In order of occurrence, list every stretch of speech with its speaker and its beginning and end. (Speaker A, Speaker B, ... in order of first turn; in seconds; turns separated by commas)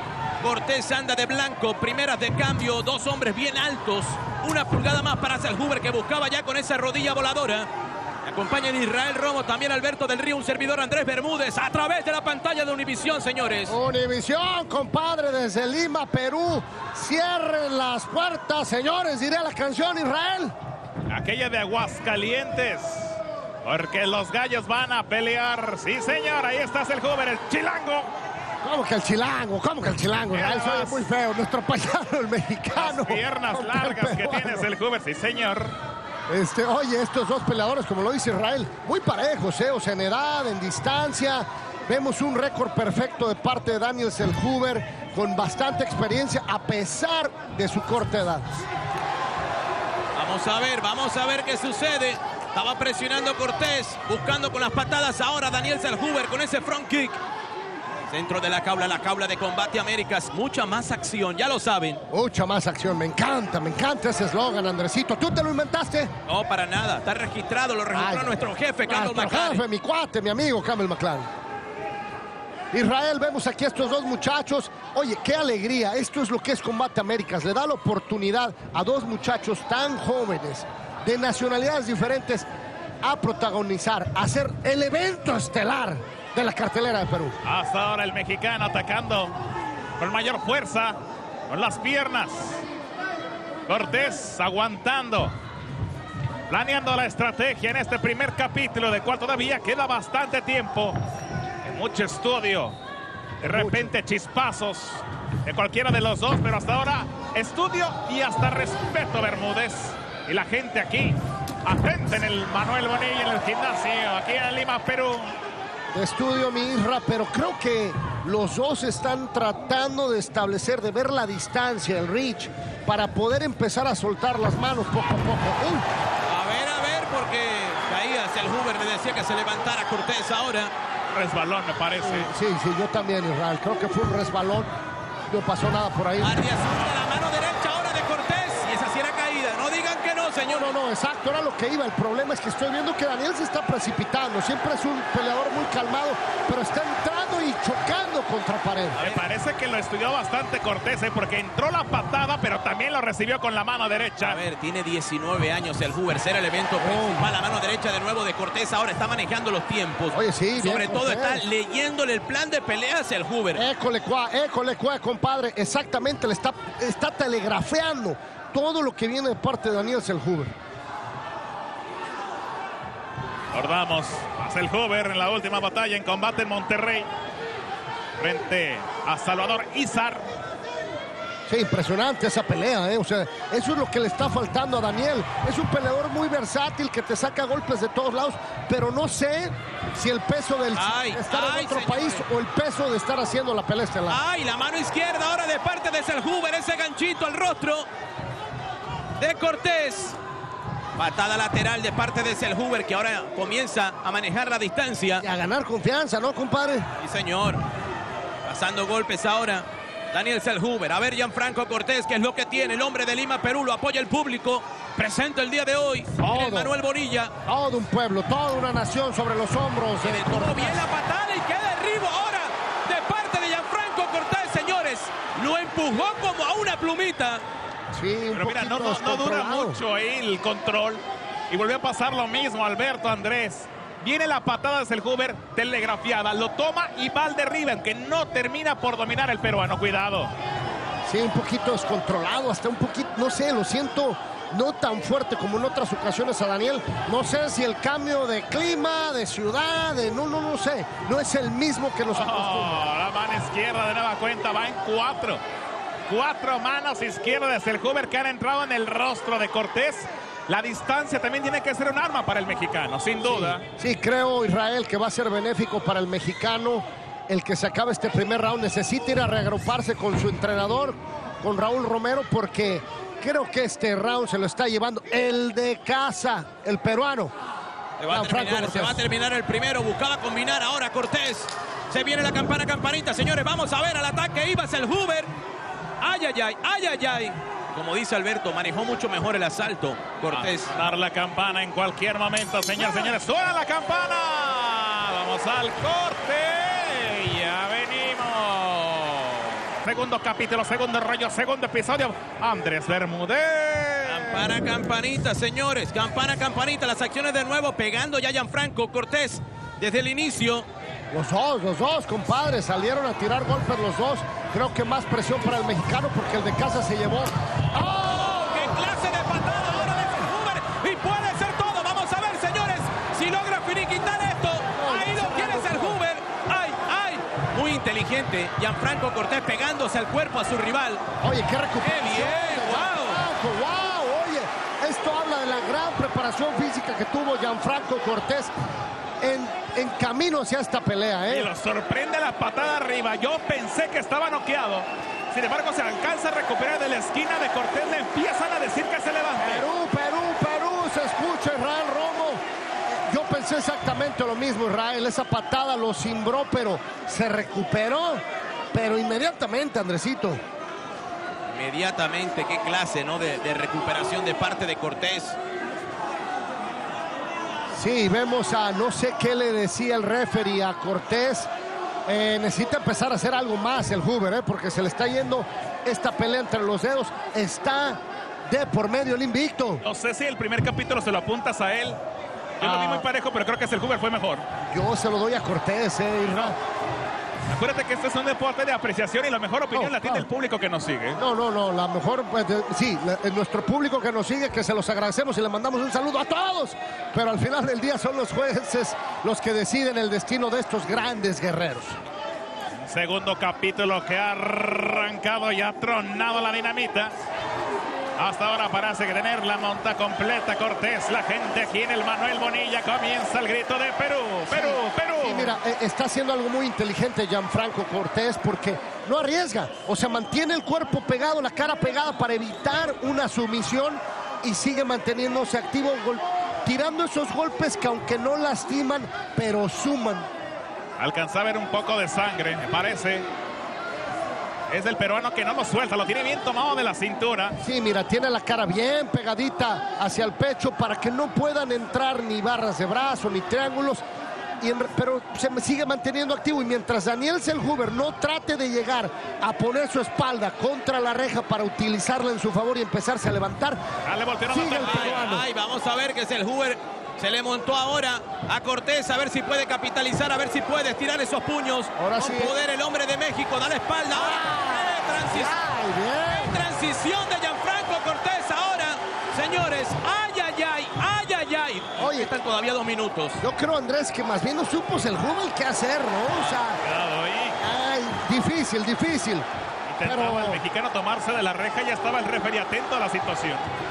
Speaker A: 0.4-7.7, Speaker A: 8.2-13.8, Speaker B: 13.7-20.5, Speaker C: 21.1-28.1, Speaker B: 28.6-34.7, Speaker C: 30.3-31.0, Speaker C: 32.7-35.7, Speaker B: 36.3-48.6, Speaker A: 50.1-57.2, Speaker A: 58.1-62.0, Speaker B: 62.1-66.1, Speaker A: 66.3-69.6, Speaker B: 67.9-71.3, Speaker B: 72.7-82.5, Speaker B: 83.0-87.4, Speaker C: 87.4-89.3, Speaker C: 90.0-91.0, Speaker C: 91.5-92.6, Speaker C: 93.7-95.3, Speaker C: 96.5-101.0, Speaker C: 101.6-102.7, Speaker C: 103.4-115.3, Speaker B: 103.5-103.9, Speaker B: 115.9-125.8, Speaker A: 126.3-130.7, Speaker C: 131.1-132.3, Speaker B: 132.0-134.7, Speaker B: 135.3-136.4, Speaker A: 136.2-140.7, Speaker B: 140.5-149.0, Speaker A: 148.9-149.3, Speaker C: 148.9-154.4, Speaker A: 154.2-163.7, Speaker B: 156.8-157.3, Speaker B: 160.1-161.4, Speaker B: 163.5-170.5, Speaker C: 173.5-177.1, Speaker C: 178.2-180.3, Speaker B: 181.5-194.2, Speaker A: 190.8-192.2, Speaker A: 194.1-197.9, Speaker A: 199.2-200.2, Speaker A: 201.0-205.2, Speaker B: 205.2-206.9, Speaker A: 207.0-207.6, Speaker A: 208.4-217.3, Speaker B: 216.2-216.7, Speaker B: 217.4-220.9, Speaker A: 220.0-227.4, Speaker B: 227.9-229.8, Speaker C: 228.3-240.3, Speaker B: 241.1-252.8, Speaker C: 252.1-255.4, Speaker C: 256.1-263.6, Speaker B: 263.2-277.3, Speaker A: 278.0-285.3, Speaker B: 278.1-279.0, Speaker A: 286.0-290.7, Speaker C: 290.3-304.6, Speaker A: 304.0-310.6, Speaker B: 311.1-318.7, Speaker A: 317.7-331.0, Speaker B: 324.8-326.0, Speaker B: 331.2-338.5, Speaker A: 331.8-333.2, Speaker B: 339.2-341.5, Speaker C: 341.3-349.7, Speaker B: 349.4-360.4, Speaker A: 361.5-365.4, Speaker B: 367.7-371.5, Speaker B: 372.1-379.8, Speaker C: 379.8-382.0, Speaker C: 382.6-384.4, Speaker B: 382.6-383.0, Speaker B: 384.7-386.6, Speaker C: 386.3-386.5, Speaker C: 387.5-391.2, Speaker B: 389.7-390.3, Speaker B: 391.1-402.0, Speaker C: 402.8-407.1, Speaker C: 408.2-415.6, Speaker B: 414.5-430.3, Speaker C: 431.0-433.3, Speaker C: 434.7-437.5, Speaker B: 437.6-444.0, Speaker B: 444.6-453.8, Speaker C: 454.0-455.2, Speaker B: 454.5-455.4, Speaker A: 454.8-465.6, Speaker B: 462.0-462.5, Speaker B: 464.1-466.6, Speaker A: 466.3-473.4, Speaker B: 472.0-472.3, Speaker B: 473.4-476.8, Speaker C: 476.4-477.6, Speaker B: 477.6-479.5, Speaker C: 479.9-483.7, Speaker B: 480.0-480.6